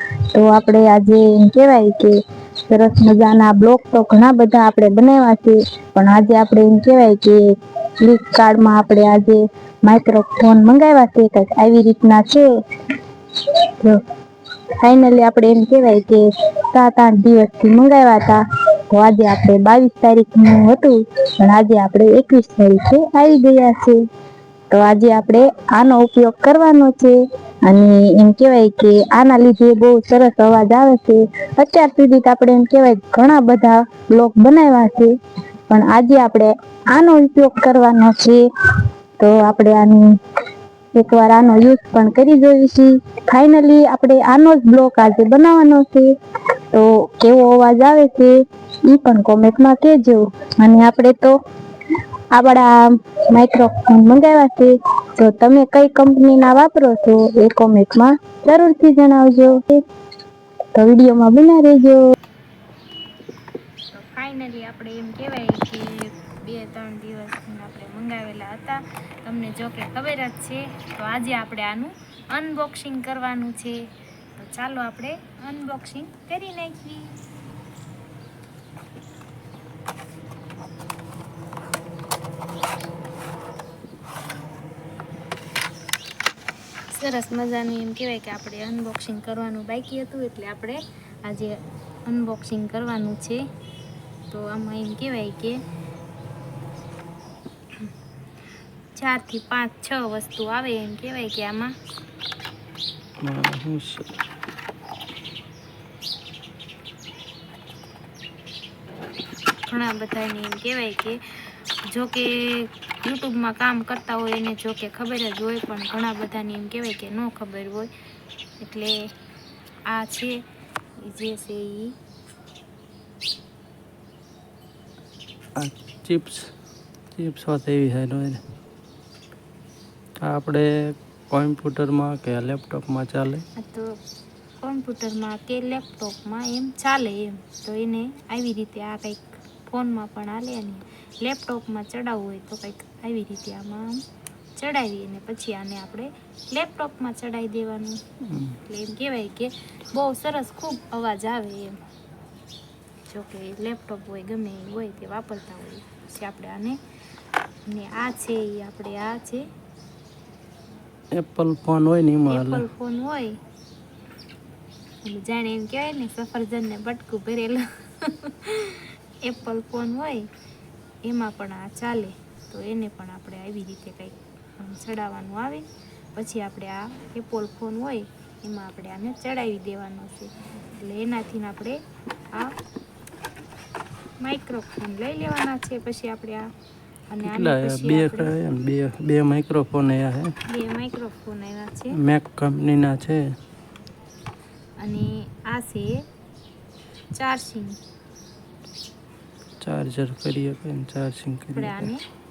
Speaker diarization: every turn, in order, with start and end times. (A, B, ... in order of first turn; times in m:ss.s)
0:00.3-0:07.4 A
0:08.0-0:12.4 A
0:13.8-0:14.0 A
0:14.8-0:18.4 A
0:18.9-0:24.0 A
0:24.7-0:35.1 A
0:35.7-0:38.4 A
0:39.2-0:40.2 A
0:41.0-0:46.1 A
0:46.7-0:51.4 A
0:52.3-0:52.7 A
0:53.3-0:59.8 A
1:00.8-1:02.0 A
1:03.9-1:13.8 B
1:14.4-1:17.2 B
1:26.9-1:33.4 B
1:34.3-1:35.6 B
1:39.0-1:41.7 B
1:43.2-1:44.1 C
1:49.7-1:57.9 B
1:58.6-1:59.0 B
1:59.9-2:00.4 B
2:01.0-2:02.0 B
2:05.6-2:06.5 C
2:07.1-2:08.4 C
2:10.2-2:13.4 C
2:13.6-2:13.9 B
2:14.6-2:24.0 B
2:24.6-2:28.0 B
2:28.3-2:28.6 C
2:28.7-2:31.8 B
2:33.1-2:36.8 B
2:37.7-2:39.4 B
2:41.1-2:42.7 C
2:42.3-2:43.4 B
2:45.0-2:50.3 B
2:51.0-3:01.8 B
3:04.2-3:06.5 B
3:07.1-3:08.3 B
3:07.2-3:10.3 C
3:10.5-3:12.0 B
3:11.9-3:13.4 C
3:14.8-3:16.0 B
3:17.1-3:17.8 B
3:19.6-3:21.9 C
3:21.5-3:22.0 B